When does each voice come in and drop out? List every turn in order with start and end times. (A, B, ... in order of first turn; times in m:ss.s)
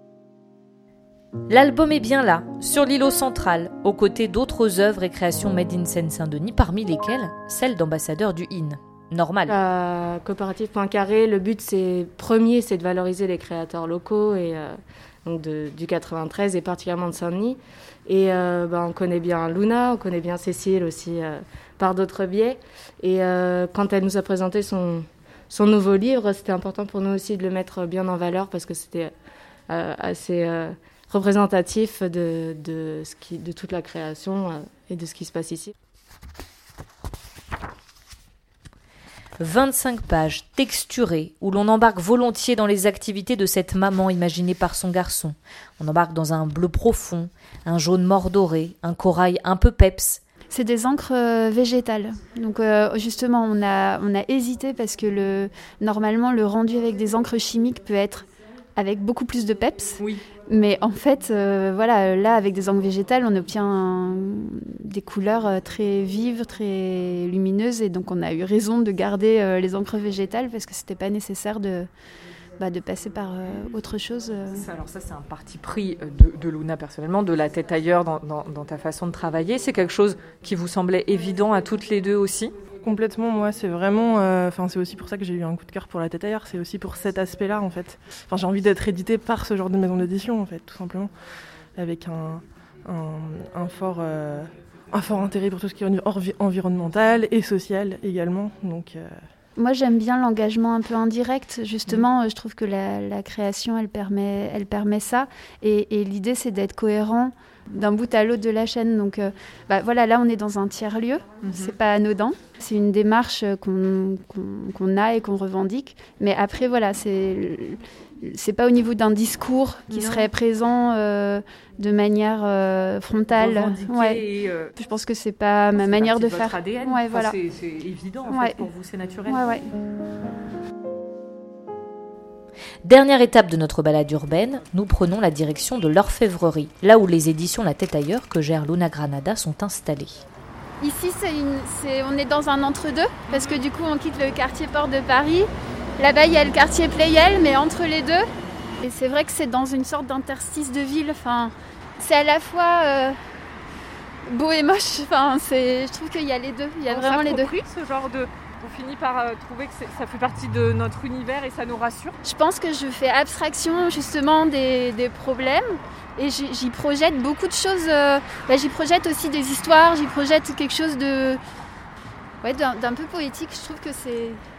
0:01.5-0:09.6 A
0:09.5-0:29.1 B
0:29.7-0:35.7 B
0:39.4-0:50.2 A
0:50.5-1:11.9 C
1:12.6-1:14.7 C
1:14.5-1:22.5 D
1:22.8-1:31.1 E
1:31.8-1:39.1 E
1:39.6-2:04.2 C
1:51.4-1:51.8 D
1:59.9-2:00.3 D
2:03.4-2:04.7 D
2:04.8-2:07.4 C
2:05.7-2:09.4 D
2:08.3-2:08.6 C
2:09.3-2:09.7 C
2:12.8-2:20.2 A
2:20.8-2:28.2 C
2:28.8-2:33.2 C
2:34.2-2:37.5 C
2:36.9-2:42.2 D
2:42.2-2:51.4 C
2:52.4-2:54.4 C